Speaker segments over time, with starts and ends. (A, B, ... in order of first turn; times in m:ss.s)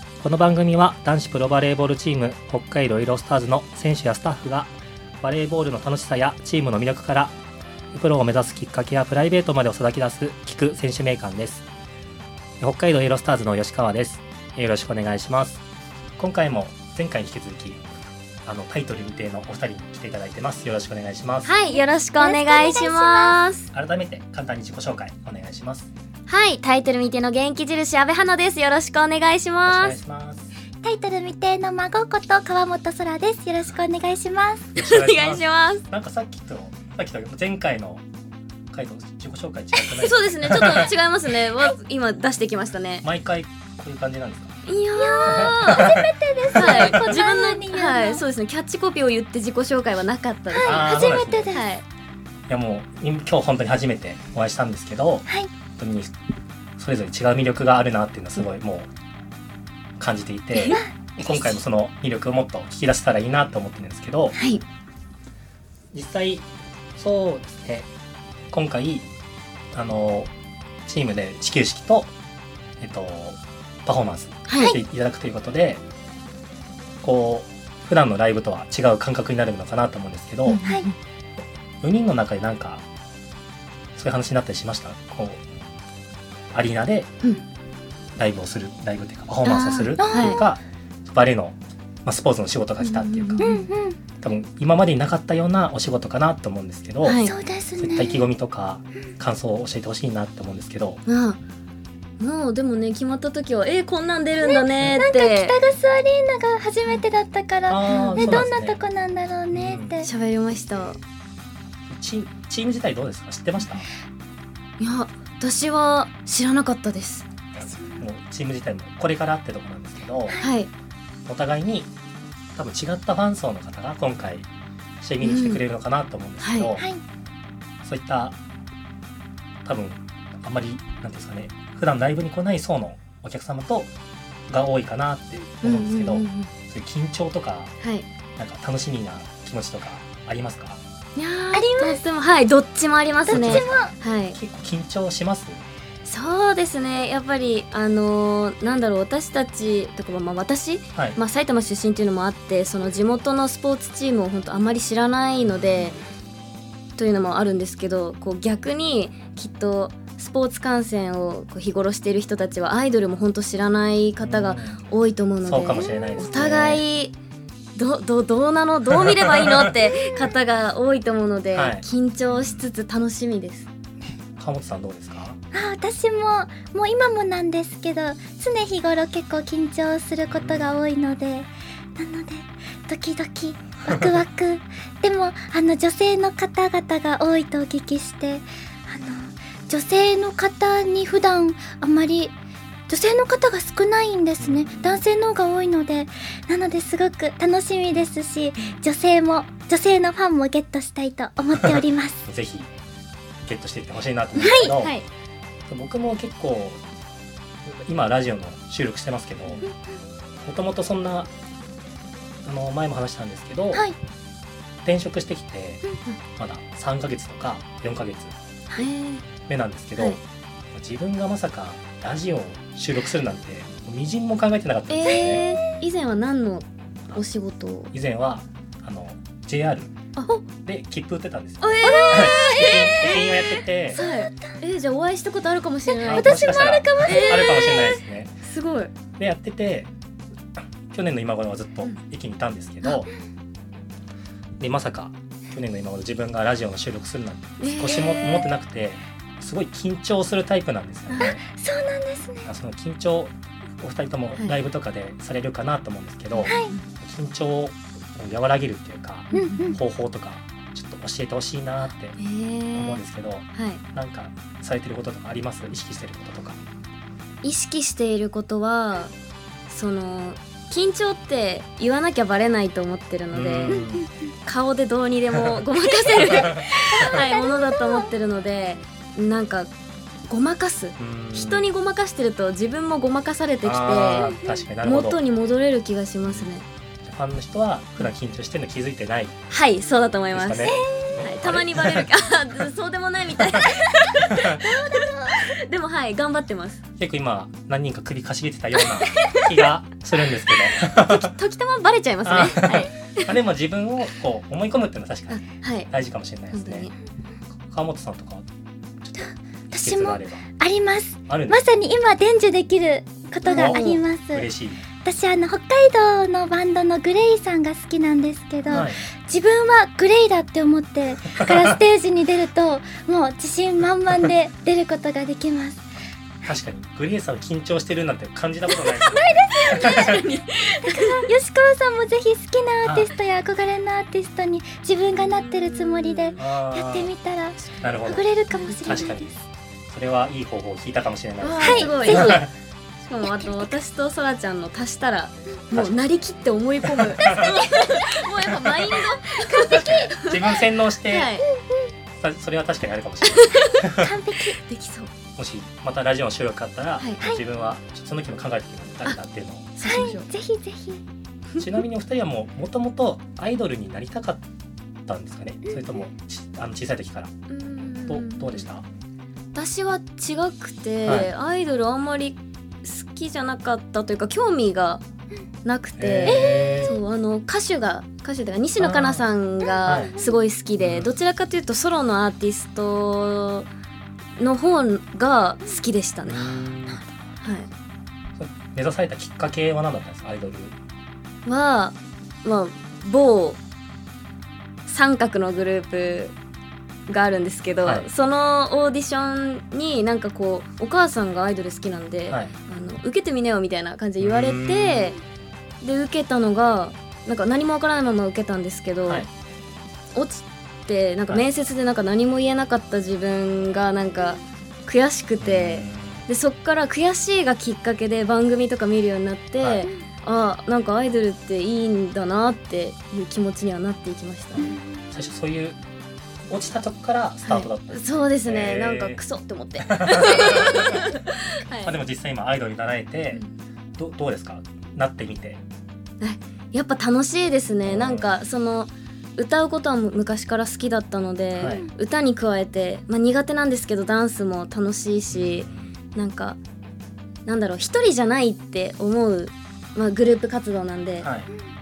0:00.2-0:07.3 A
0:07.9-0:11.6 A
0:12.6-0:15.6 A
0:16.2-0:17.8 A
0:18.4-0:21.5 A
0:21.4-0:23.7 B
0:21.6-0:23.4 C
0:23.7-0:25.9 A
0:26.3-0:30.0 B
0:29.6-0:30.5 A
0:30.8-0:34.7 C
0:34.7-0:38.0 A
0:34.8-0:35.8 B
0:38.7-0:40.9 A
0:39.9-0:43.0 B
0:43.0-0:44.6 A
0:44.7-0:46.0 B
0:45.0-0:48.2 C
0:45.2-0:47.0 A
0:46.5-0:51.8 B
0:50.5-0:51.6 C
0:50.6-0:51.5 A
0:52.5-0:56.1 A
0:56.8-0:58.9 A
1:00.0-1:04.4 A
1:00.5-1:01.4 C
1:04.4-1:04.6 B
1:05.9-1:07.9 A
1:08.5-1:09.1 A
1:09.7-1:10.3 A
1:10.8-1:12.1 A
1:12.8-1:15.8 A
1:14.5-1:14.7 B
1:17.0-1:20.6 A
1:20.4-1:21.0 B
1:21.8-1:22.8 A
1:24.0-1:25.4 A
1:26.5-1:27.1 A
1:28.2-1:33.4 A
1:29.4-1:30.4 B
1:30.0-1:30.5 C
1:32.8-1:33.7 B
1:33.4-1:34.0 C
1:34.2-1:37.2 A
1:37.0-1:37.3 B
1:37.2-1:38.2 C
1:37.8-1:41.0 A
1:41.1-1:41.4 B
1:42.2-1:45.6 B
1:44.4-1:50.1 C
1:47.7-1:48.8 A
1:47.9-1:48.4 B
1:49.5-1:50.0 A
1:50.0-1:51.0 B
1:51.9-1:53.8 A
1:54.8-1:57.3 B
1:57.5-2:00.4 A
1:57.8-1:58.0 C
2:00.4-2:00.7 B
2:01.2-2:01.9 A
2:02.6-2:04.5 A
2:05.0-2:06.9 A
2:05.2-2:05.6 B
2:06.4-2:06.7 B
2:07.8-2:08.4 A
2:09.6-2:13.9 A
2:14.5-2:17.7 A
2:15.6-2:16.5 B
2:17.8-2:18.0 B
2:18.4-2:20.8 A
2:21.2-2:24.4 B
2:21.5-2:22.0 C
2:23.2-2:23.9 C
2:23.3-2:25.6 A
2:26.0-2:36.0 B
2:35.4-2:36.0 A
2:37.0-2:47.1 B
2:44.2-2:44.8 A
2:45.4-2:46.8 A
2:45.8-2:46.4 C
2:47.8-2:53.7 B
2:48.9-2:49.7 A
2:49.9-2:50.3 C
2:51.5-2:52.7 A
2:54.4-2:55.4 A
2:55.5-3:12.3 C
3:00.3-3:00.8 A
3:12.9-3:22.2 C
3:14.4-3:15.0 A
3:21.6-3:22.7 A
3:23.4-3:25.0 A
3:24.4-3:24.7 C
3:24.5-3:25.0 B
3:25.7-3:26.8 A
3:27.6-3:29.6 A
3:30.4-3:31.3 A
3:32.4-3:33.9 A
3:34.8-3:38.3 A
3:38.8-3:39.2 B
3:39.5-3:40.2 A
3:40.7-3:45.4 A
3:44.9-3:47.9 B
3:47.9-3:49.9 A
3:50.2-3:50.4 B
3:50.6-3:54.0 A
3:51.6-3:56.4 B
3:51.8-3:53.2 C
3:53.9-3:54.6 C
3:55.9-3:57.8 C
3:56.0-3:58.3 A
3:57.0-3:58.9 B
3:59.2-3:59.9 A
4:00.9-4:03.1 A
4:04.6-4:11.4 A
4:07.6-4:08.4 B
4:11.2-4:12.5 C
4:12.4-4:22.2 A
4:16.4-4:16.8 B
4:16.4-4:16.7 C
4:19.3-4:19.8 B
4:19.3-4:19.8 C
4:22.2-4:23.0 B
4:22.7-4:26.6 A
4:23.5-4:23.8 B
4:27.4-4:29.1 B
4:29.7-4:33.8 B
4:33.3-4:34.1 A
4:33.7-4:34.0 C
4:34.4-4:39.7 B
4:36.1-4:37.1 A
4:36.3-4:38.1 C
4:40.3-4:46.6 B
4:41.0-4:41.6 A
4:43.6-4:45.2 A
4:44.2-4:44.6 C
4:46.2-4:46.5 A
4:47.0-4:49.4 A
4:49.5-4:56.8 B
4:50.3-4:52.1 A
4:50.6-4:51.2 C
4:53.4-4:54.6 A
4:54.6-4:55.5 C
4:57.0-5:01.3 A
4:58.8-4:59.6 B
5:00.8-5:03.3 B
5:02.2-5:06.9 A
5:05.3-5:05.9 B
5:06.5-5:06.9 B
5:07.6-5:08.4 A
5:09.0-5:10.4 A
5:09.7-5:14.5 C
5:11.3-5:11.6 A
5:13.4-5:14.0 B
5:13.5-5:14.8 A
5:15.0-5:25.9 C
5:18.7-5:19.0 A
5:21.3-5:21.8 A
5:26.4-5:30.2 A
5:29.0-5:30.2 C
5:29.1-5:31.3 B
5:30.8-5:39.4 C
5:32.8-5:33.1 A
5:35.2-5:36.4 B
5:36.4-5:37.1 A
5:37.8-5:38.3 A
5:38.5-5:39.1 B
5:38.8-5:42.5 A
5:41.4-5:42.5 B
5:41.6-5:42.4 C
5:43.0-5:51.5 B
5:43.2-5:43.7 C
5:45.7-5:46.0 A
5:46.8-5:47.7 A
5:48.5-5:49.0 A
5:49.5-5:50.0 C
5:49.5-5:51.3 A
5:52.2-5:54.1 A
5:53.3-5:53.9 B
5:54.0-5:54.6 C
5:54.6-5:55.1 B
5:55.3-5:59.7 A
5:59.8-6:00.2 B
5:59.8-6:01.0 C
6:01.6-6:04.4 A
6:05.1-6:07.3 A
6:07.5-6:08.6 B
6:08.1-6:08.8 A
6:09.5-6:15.0 B
6:11.0-6:11.3 A
6:15.6-6:23.7 B
6:16.0-6:17.0 A
6:16.2-6:16.9 C
6:18.8-6:19.2 A
6:19.8-6:20.2 A
6:20.8-6:21.1 A
6:24.4-6:26.6 B
6:26.2-6:27.0 A
6:27.4-6:27.7 B
6:28.4-6:30.7 A
6:31.4-6:33.6 B
6:34.8-6:36.3 B
6:37.1-6:45.2 B
6:37.8-6:38.1 A
6:44.2-6:45.1 A
6:45.8-6:49.3 B
6:50.1-7:04.8 B
6:55.4-6:56.3 A
6:59.6-6:59.9 A
7:04.6-7:05.8 A
7:06.5-7:09.2 A
7:07.5-7:11.9 B
7:09.8-7:11.2 A
7:11.8-7:13.4 A
7:14.0-7:15.6 A
7:16.2-7:26.6 B
7:17.8-7:18.3 A
7:21.6-7:21.9 A
7:25.3-7:25.9 A
7:27.4-7:31.3 B
7:31.2-7:31.5 A